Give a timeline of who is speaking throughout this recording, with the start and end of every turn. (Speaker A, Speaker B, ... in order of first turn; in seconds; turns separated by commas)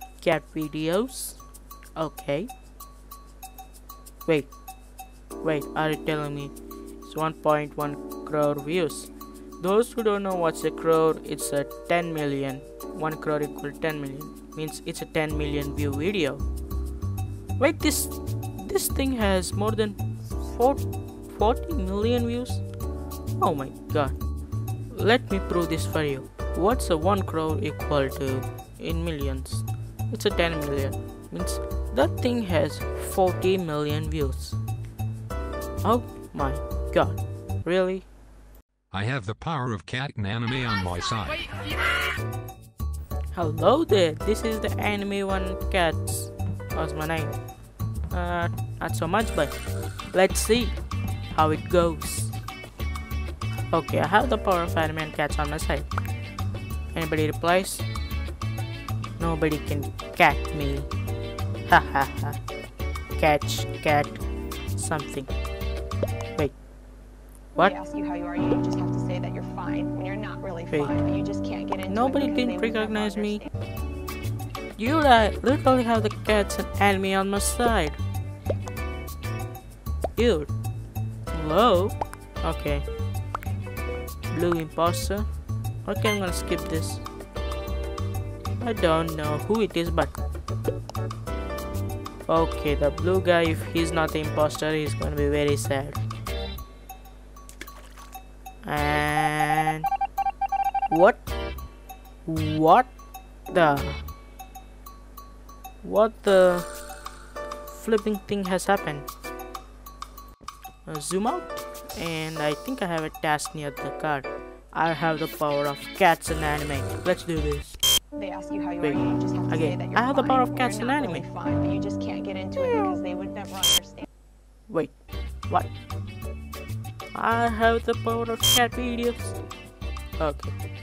Speaker A: 0.2-1.4, Speaker A: 2.0-2.5, Speaker A: 4.3-4.5, Speaker A: 5.4-6.5, Speaker A: 7.0-16.4, Speaker A: 17.6-22.6, Speaker A: 23.4-24.2, Speaker A: 24.9-34.6, Speaker A: 35.8-38.1, Speaker B: 38.9-41.5, Speaker A: 43.3-47.4, Speaker A: 48.1-49.5, Speaker A: 50.1-50.8, Speaker A: 51.3-52.3, Speaker A: 53.7-55.9, Speaker A: 56.9-57.9, Speaker A: 59.2-60.9, Speaker A: 61.7-62.4, Speaker A: 63.2-64.2, Speaker A: 64.8-65.3, Speaker C: 67.6-73.5, Speaker A: 70.7-71.0, Speaker A: 71.9-73.4, Speaker A: 74.8-78.0, Speaker A: 80.2-80.5, Speaker A: 81.3-82.9, Speaker A: 84.3-85.3, Speaker A: 85.8-87.1, Speaker A: 88.6-90.1, Speaker A: 92.3-96.0, Speaker A: 98.6-99.9, Speaker A: 100.9-101.3, Speaker A: 102.3-102.9, Speaker A: 103.5-104.0, Speaker A: 105.8-106.7, Speaker A: 107.7-109.1, Speaker A: 110.9-117.8, Speaker C: 118.1-124.1, Speaker A: 118.8-121.3, Speaker A: 124.7-124.9, Speaker A: 127.1-129.4, Speaker A: 130.2-130.5